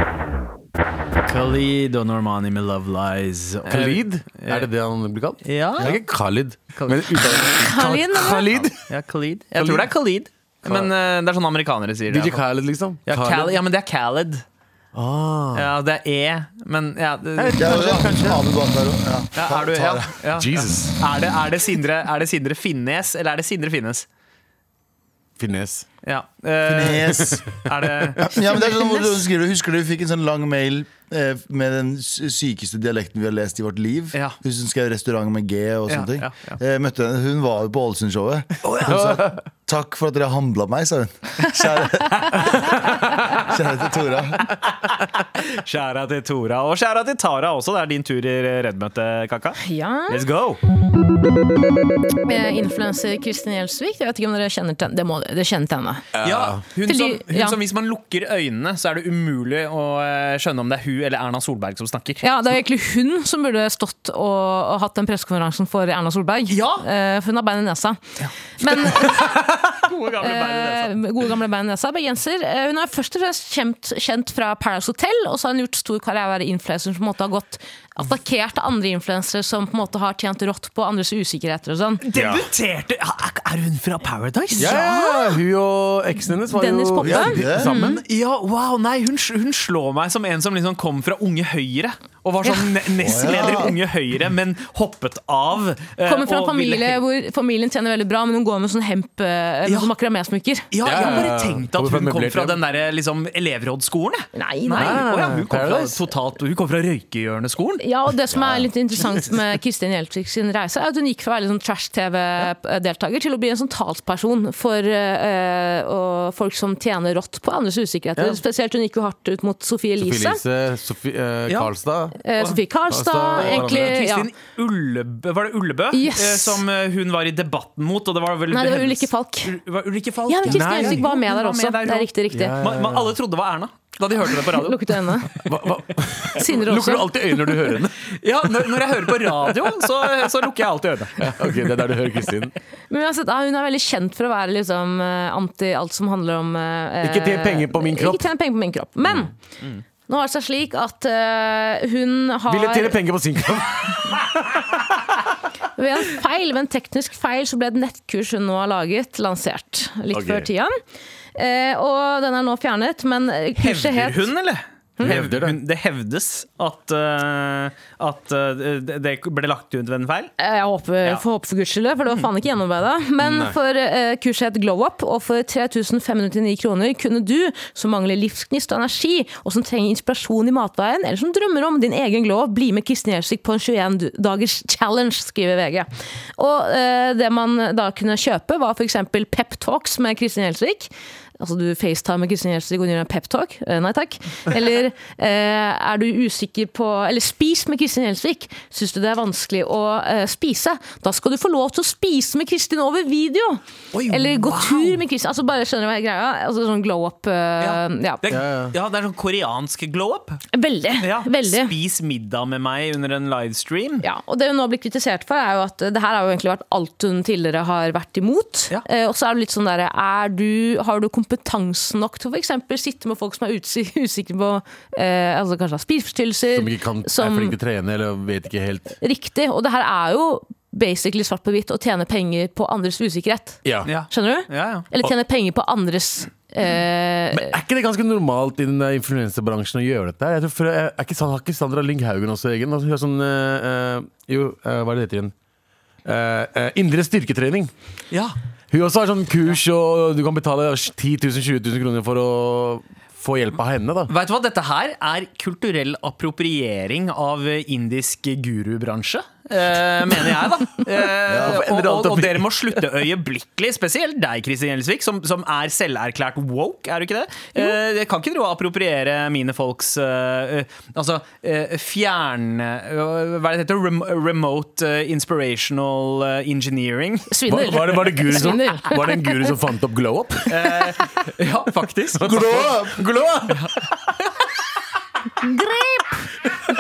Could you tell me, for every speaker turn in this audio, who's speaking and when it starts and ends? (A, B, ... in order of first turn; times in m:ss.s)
0:01.3-0:04.7 A
0:03.7-0:08.8 B
0:05.4-0:06.0 A
0:06.7-0:07.1 A
0:07.6-0:08.5 C
0:08.9-0:12.4 A
0:09.6-0:09.9 B
0:10.6-0:10.9 B
0:12.1-0:13.6 B
0:13.1-0:14.4 A
0:14.9-0:15.7 B
0:15.5-0:18.0 A
0:17.4-0:18.4 B
0:17.6-0:20.1 D
0:19.4-0:24.1 A
0:20.4-0:21.0 B
0:25.4-0:25.9 B
0:26.0-0:28.4 A
0:26.6-0:27.5 D
0:27.1-0:27.4 B
0:28.2-0:44.5 D
0:35.9-0:36.6 A
0:38.7-0:39.0 A
0:38.8-0:39.3 B
0:42.1-0:43.0 A
0:45.4-0:50.6 A
0:49.6-0:50.2 C
0:52.2-0:56.0 C
0:56.2-0:56.6 B
0:56.2-1:02.2 A
0:56.9-0:57.6 C
1:02.2-1:08.0 C
1:06.5-1:06.9 A
1:08.2-1:11.0 A
1:08.6-1:09.4 C
1:10.2-1:22.0 C
1:22.0-1:25.0 A
1:22.1-1:22.4 B
1:24.6-1:27.9 B
1:24.6-1:25.3 C
1:26.5-1:28.0 C
1:27.0-1:27.7 D
1:27.5-1:37.0 A
1:33.0-1:33.8 D
1:36.0-1:41.3 C
1:40.7-1:47.8 A
1:40.8-1:42.6 B
1:44.4-1:45.1 C
1:44.8-1:46.0 B
1:47.8-2:00.4 C
1:48.3-1:49.1 B
1:58.2-1:58.4 B
2:00.0-2:02.2 B
2:01.5-2:01.7 A
2:02.2-2:04.3 C
2:02.9-2:04.0 B
2:03.4-2:12.1 A
2:05.9-2:06.6 C
2:08.5-2:09.6 C
2:10.3-2:12.6 C
2:10.5-2:11.0 B
2:12.3-2:13.2 B
2:12.6-2:15.4 A
2:14.5-2:15.5 C
2:15.5-2:18.0 B
2:16.4-2:17.6 C
2:18.1-2:21.3 A
2:21.2-2:22.5 B
2:22.9-2:29.3 C
2:27.0-2:28.3 B
2:30.1-2:33.0 C
2:32.5-2:35.2 B
2:35.8-2:40.8 C
2:40.1-2:40.5 B
2:41.4-2:44.3 C
2:43.6-2:50.3 A
2:45.0-2:45.6 B
2:50.4-3:28.2 C
2:53.2-2:53.6 B
3:23.9-3:25.0 A
3:27.6-3:30.4 A
3:28.3-3:28.7 B
3:30.5-3:31.8 C
3:31.0-3:34.0 A
3:34.0-3:47.6 C
3:46.6-3:49.0 B
3:49.0-3:57.6 C
3:53.6-3:53.9 B
3:53.8-3:54.9 A
3:57.3-4:05.3 B
4:06.0-4:07.7 B
4:08.7-4:14.1 B
4:14.1-4:37.3 A
4:21.3-4:21.6 D
4:21.3-4:22.4 B
4:37.3-4:39.5 C
4:37.5-4:41.0 B
4:40.5-4:42.7 A
4:42.2-4:43.7 B
4:42.3-4:43.0 D
4:45.4-4:46.3 C